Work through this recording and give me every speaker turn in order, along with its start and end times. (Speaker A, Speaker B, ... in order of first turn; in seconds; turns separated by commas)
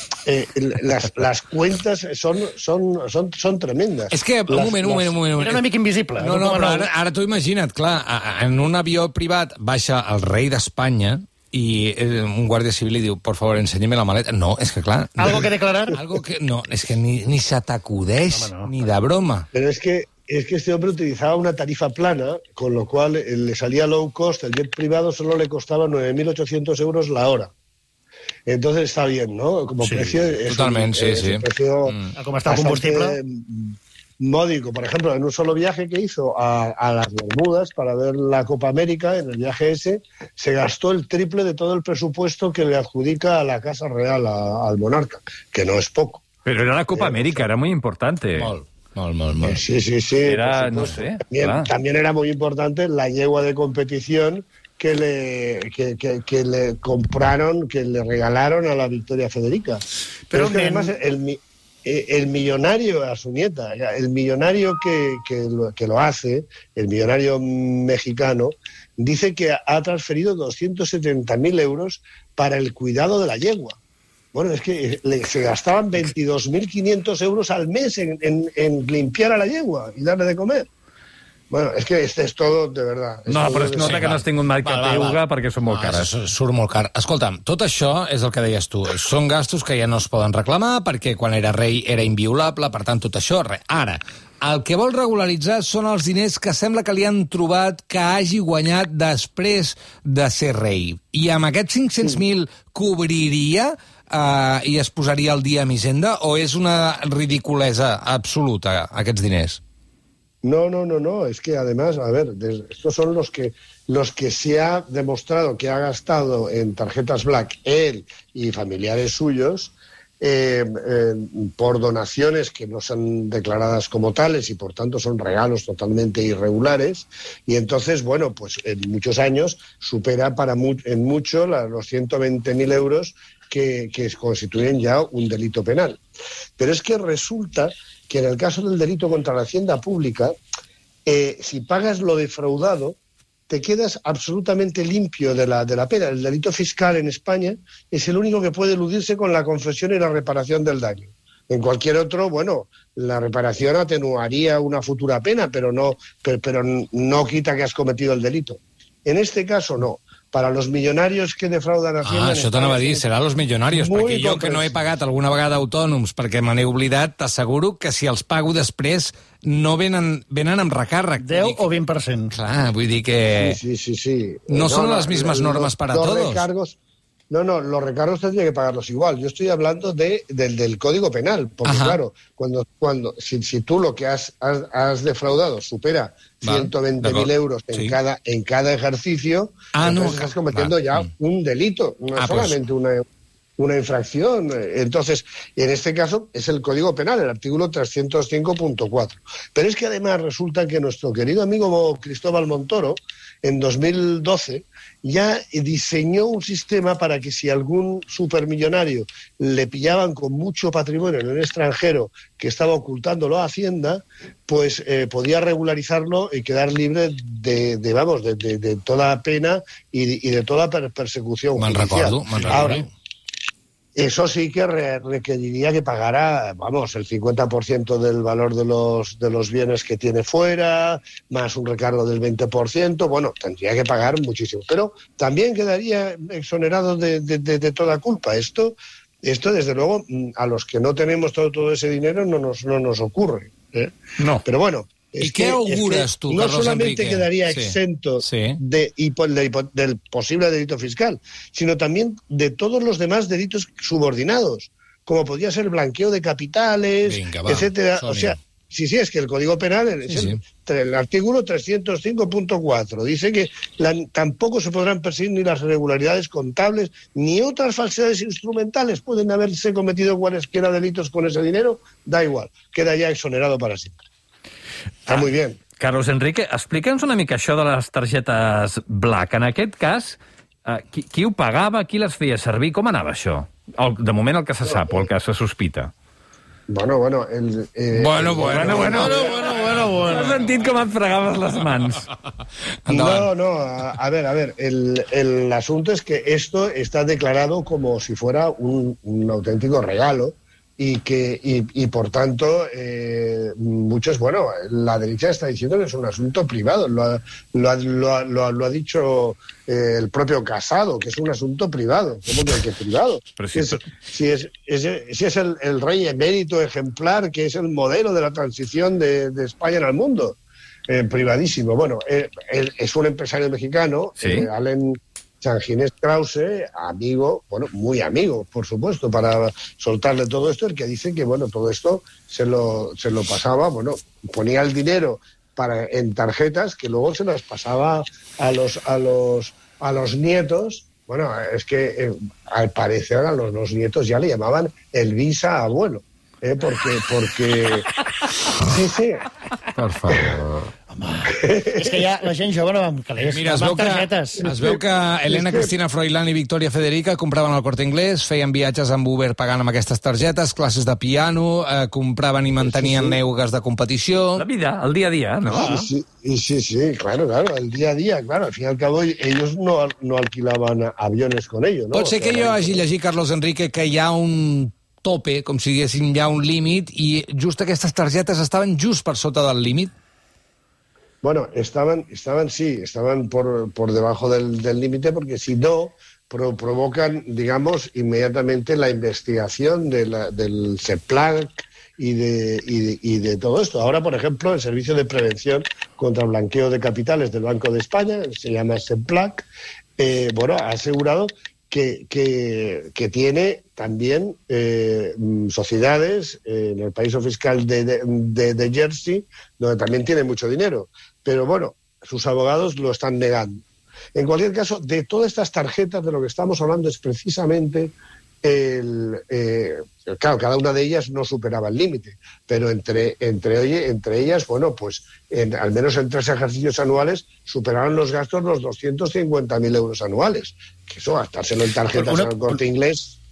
Speaker A: 0.2-5.2, Speaker B: 4.1-5.6, Speaker C: 5.3-6.9, Speaker B: 6.2-19.5, Speaker C: 15.2-16.0, Speaker C: 18.3-18.7, Speaker A: 19.5-27.5, Speaker A: 28.4-46.2, Speaker C: 29.8-30.1, Speaker B: 30.5-32.1, Speaker C: 32.1-33.2, Speaker D: 46.5-48.5, Speaker A: 46.9-47.5, Speaker B: 48.4-49.6, Speaker A: 49.4-73.8, Speaker D: 50.2-51.7, Speaker C: 60.3-60.9, Speaker A: 74.3-80.7, Speaker A: 81.5-84.2, Speaker D: 83.3-86.1, Speaker B: 83.8-84.2, Speaker C: 84.6-85.2, Speaker B: 85.6-109.6, Speaker A: 110.4-136.0, Speaker A: 136.6-140.3, Speaker A: 141.1-143.0, Speaker A: 143.5-163.1, Speaker B: 162.0-171.7, Speaker A: 163.7-164.8, Speaker C: 171.2-172.3, Speaker B: 172.3-173.6, Speaker A: 173.4-176.8, Speaker B: 174.5-176.4, Speaker A: 177.3-193.0, Speaker B: 181.6-182.0, Speaker B: 186.4-188.0, Speaker B: 189.7-191.1, Speaker B: 192.2-192.6, Speaker A: 193.6-222.9, Speaker B: 221.6-222.9, Speaker A: 223.9-274.0, Speaker B: 245.2-248.6, Speaker B: 257.0-258.4, Speaker B: 260.1-260.4, Speaker A: 275.1-275.6, Speaker D: 275.8-285.9, Speaker A: 284.6-285.1, Speaker A: 286.7-289.3, Speaker B: 288.0-289.9, Speaker D: 288.4-292.1, Speaker C: 288.5-290.4, Speaker B: 292.9-293.3, Speaker A: 292.9-347.9, Speaker D: 313.4-313.8, Speaker D: 324.2-324.5, Speaker A: 348.6-349.2, Speaker B: 349.7-350.7, Speaker A: 350.1-350.4, Speaker C: 351.0-354.4, Speaker A: 351.3-352.1, Speaker B: 353.2-364.4, Speaker A: 354.4-355.7, Speaker A: 362.6-363.2, Speaker D: 364.4-365.7, Speaker C: 365.5-365.9, Speaker A: 365.5-372.8, Speaker B: 371.9-379.9, Speaker A: 381.2-399.4, Speaker A: 400.0-433.2, Speaker C: 431.9-432.6